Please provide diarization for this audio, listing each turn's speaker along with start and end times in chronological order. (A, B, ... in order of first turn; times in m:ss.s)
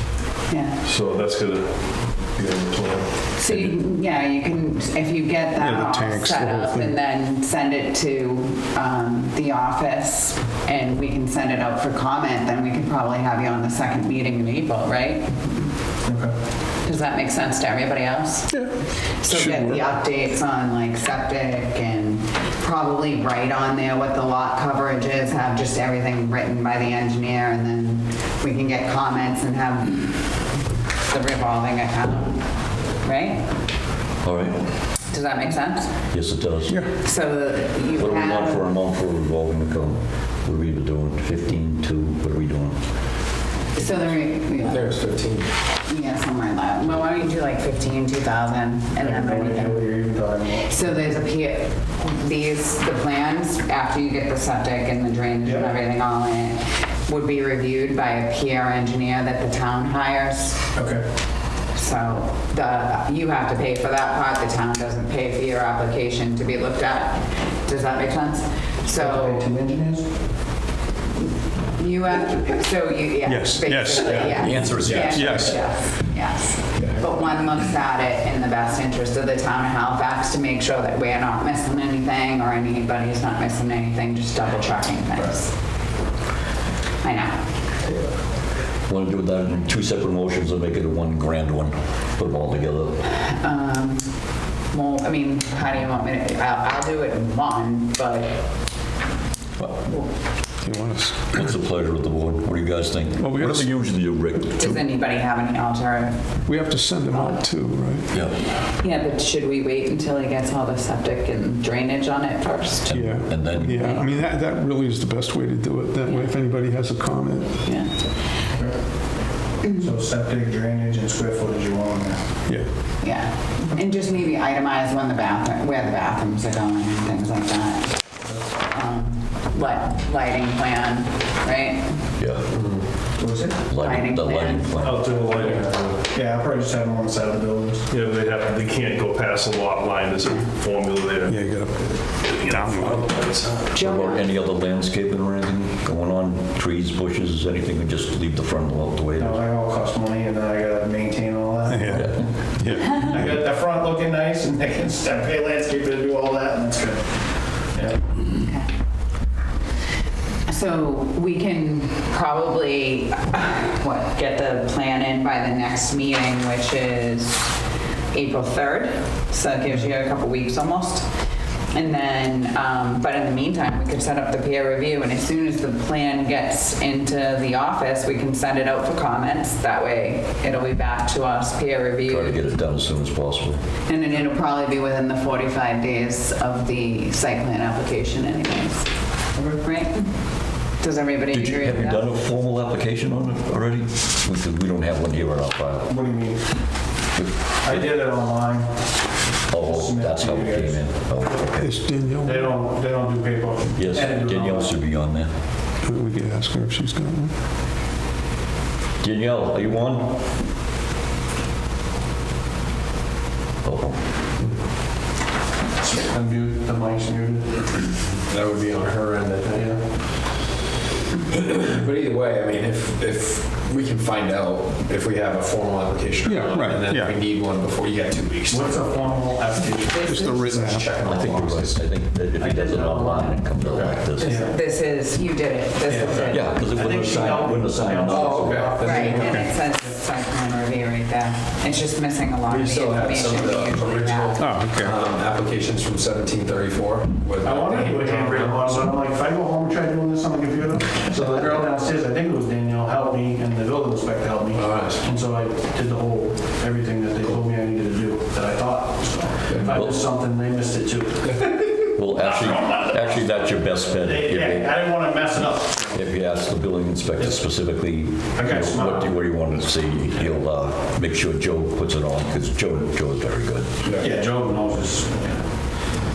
0:00.5-0:00.8 A
0:00.8-0:03.1 B
0:03.4-0:15.7 A
0:03.5-0:03.7 C
0:05.6-0:06.9 D
0:16.0-0:16.3 E
0:16.8-0:18.6 A
0:19.2-0:30.3 A
0:19.2-0:19.8 D
0:31.0-0:33.5 A
0:34.2-0:34.6 C
0:35.1-0:36.0 A
0:36.1-0:36.8 C
0:37.0-0:38.7 A
0:38.0-0:42.8 C
0:43.7-0:45.0 A
0:44.6-0:45.5 F
0:45.8-0:49.9 A
0:49.0-0:50.8 E
0:50.6-1:00.6 A
0:55.4-0:55.7 E
1:00.7-1:01.0 E
1:01.7-1:09.5 A
1:08.9-1:10.1 E
1:11.7-1:25.6 A
1:13.2-1:15.5 D
1:14.3-1:15.2 F
1:14.4-1:15.4 C
1:27.0-1:27.4 A
1:28.9-1:33.0 C
1:33.1-1:38.4 A
1:39.6-1:39.9 C
1:40.6-1:41.4 D
1:41.3-1:44.8 C
1:43.2-1:43.7 D
1:44.5-1:46.5 A
1:46.4-1:48.1 D
1:47.1-1:47.4 A
1:48.1-1:48.4 C
1:48.5-1:53.0 A
1:52.8-1:54.1 C
1:52.9-1:57.6 D
1:57.6-1:58.3 A
1:59.7-2:02.2 E
2:03.0-2:08.0 A
2:08.6-2:12.0 A
2:12.2-2:12.5 C
2:12.5-2:12.9 F
2:13.2-2:13.6 E
2:13.7-2:15.1 C
2:13.7-2:14.8 A
2:14.8-2:16.1 B
2:14.9-2:17.8 E
2:17.9-2:21.4 B
2:21.2-2:23.1 D
2:21.9-2:23.6 B
2:23.7-2:24.3 A
2:23.7-2:29.4 C
2:29.2-2:32.3 E
2:31.7-2:32.0 D
2:31.9-2:32.2 C
2:32.6-2:33.0 D
2:32.9-2:37.0 E
2:37.7-2:38.0 E
2:38.2-2:38.7 A
2:40.5-2:47.5 A
2:48.1-2:51.1 A
2:51.7-3:02.4 A
3:02.1-3:03.6 C
3:03.9-3:10.1 A
3:10.8-3:12.0 A
3:11.3-3:15.9 C
3:15.9-3:16.4 E
3:17.1-3:18.0 C
3:17.6-3:21.4 E
3:19.5-3:21.9 C
3:21.5-3:22.6 D
3:22.2-3:24.8 E
3:23.8-3:25.3 C
3:25.8-3:27.3 D
3:29.0-3:30.1 C
3:33.6-3:34.0 C
3:35.8-3:37.9 E
3:38.2-3:39.6 F
3:39.5-3:39.8 E
3:41.3-3:49.2 F
3:46.2-3:47.2 D
3:48.5-3:50.3 E
3:49.9-3:51.1 D
3:50.2-3:51.9 F
3:51.0-3:54.5 C
3:52.4-3:54.5 E
3:54.2-3:56.5 A
3:55.8-3:59.4 E
3:56.1-3:58.8 C
3:58.0-3:59.4 F
3:58.8-4:04.6 A
3:59.2-3:59.5 D
4:02.5-4:08.9 F
4:04.4-4:05.0 D
4:07.4-4:23.2 E
4:14.5-4:15.1 F
4:19.5-4:19.8 F
4:21.3-4:21.6 F
4:21.9-4:24.7 C
4:24.0-4:26.0 E
4:25.9-4:33.7 C
4:28.4-4:29.1 E
4:34.0-4:35.4 E